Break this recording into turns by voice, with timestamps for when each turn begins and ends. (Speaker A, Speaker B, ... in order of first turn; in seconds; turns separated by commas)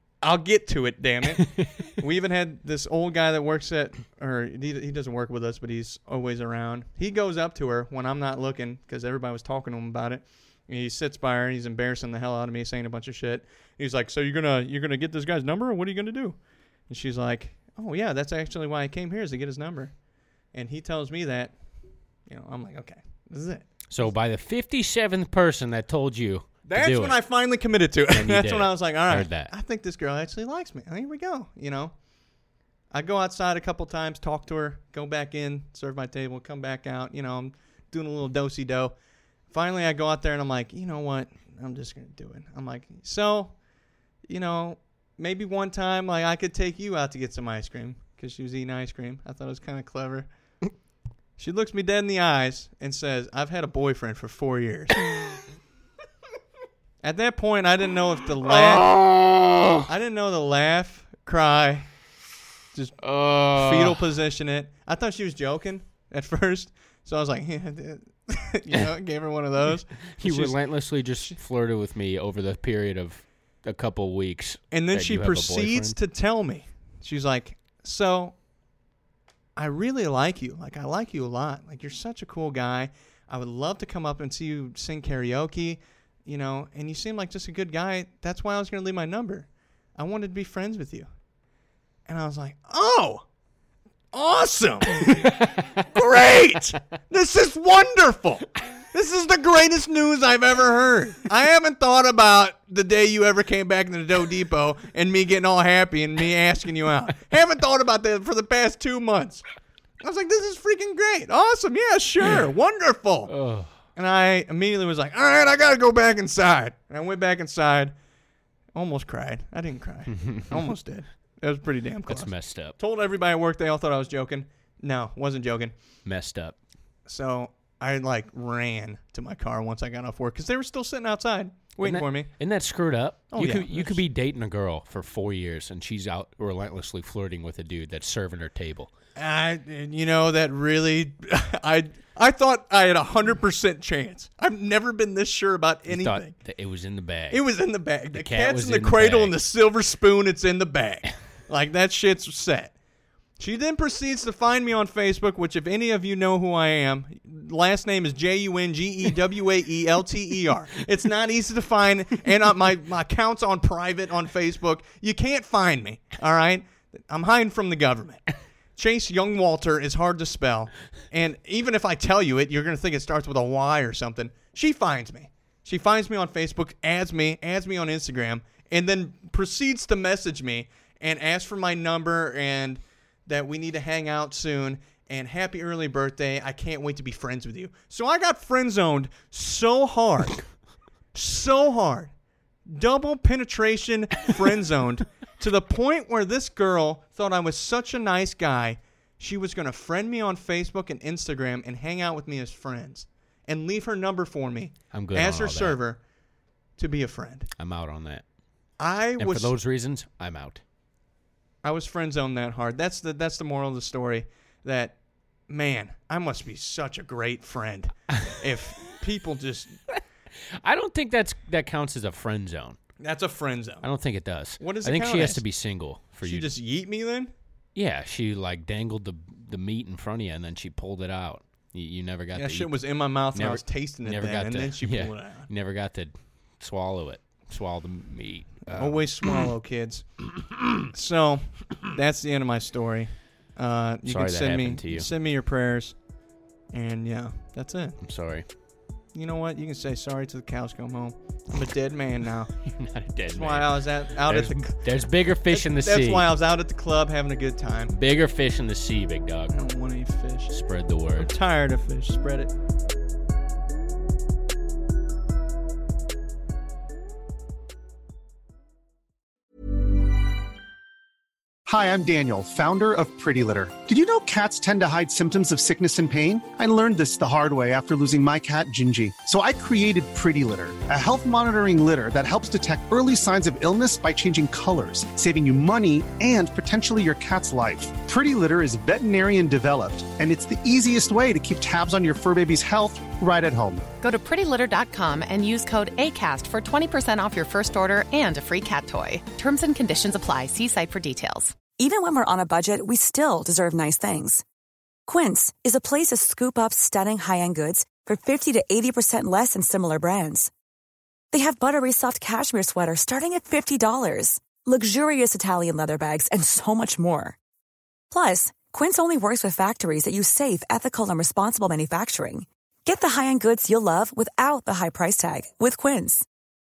Speaker A: 0.2-19.9, Speaker A: 20.5-21.6, Speaker A: 22.2-23.7, Speaker B: 23.9-27.2, Speaker A: 26.7-31.9, Speaker B: 28.1-29.5, Speaker A: 32.9-38.9, Speaker A: 39.5-43.6, Speaker A: 44.2-50.3, Speaker A: 51.4-55.0, Speaker A: 57.0-58.9, Speaker B: 58.5-59.5, Speaker A: 59.9-61.9, Speaker A: 62.7-63.0, Speaker B: 63.0-64.0, Speaker A: 63.5-70.5, Speaker B: 70.1-75.9, Speaker A: 74.7-78.4, Speaker A: 79.5-91.1, Speaker A: 92.0-93.2, Speaker A: 94.1-109.4, Speaker A: 110.0-113.3, Speaker B: 113.3-113.7, Speaker A: 114.0-118.0, Speaker A: 118.7-125.7, Speaker B: 120.1-120.7, Speaker B: 122.1-122.7, Speaker B: 126.0-126.5, Speaker A: 127.1-132.3, Speaker B: 131.8-138.9, Speaker A: 133.3-134.0, Speaker A: 139.2-146.3, Speaker B: 145.9-147.4, Speaker A: 147.3-152.7, Speaker B: 148.1-149.3, Speaker A: 153.4-190.4, Speaker A: 191.1-192.1, Speaker A: 192.7-206.0, Speaker B: 204.9-205.8, Speaker A: 206.8-207.5, Speaker B: 207.6-208.2, Speaker A: 208.8-209.5, Speaker B: 209.2-210.6, Speaker A: 211.6-214.9, Speaker A: 215.5-219.7, Speaker B: 220.6-222.8, Speaker A: 223.0-223.8, Speaker B: 223.8-226.5, Speaker A: 224.6-225.4, Speaker A: 226.2-227.3, Speaker B: 227.7-239.4, Speaker A: 232.3-235.5, Speaker A: 238.7-240.3, Speaker A: 240.9-246.0, Speaker B: 244.1-245.1, Speaker A: 246.7-248.0, Speaker B: 248.0-248.4, Speaker A: 249.1-252.5, Speaker B: 252.7-256.3, Speaker A: 253.3-254.8, Speaker A: 255.5-257.9, Speaker B: 257.9-259.7, Speaker A: 259.5-260.6, Speaker B: 260.5-261.3, Speaker A: 261.2-262.5, Speaker C: 271.6-293.8, Speaker D: 294.0-301.6, Speaker E: 301.8-304.4, Speaker E: 305.1-310.5, Speaker E: 311.3-317.4, Speaker E: 318.1-326.2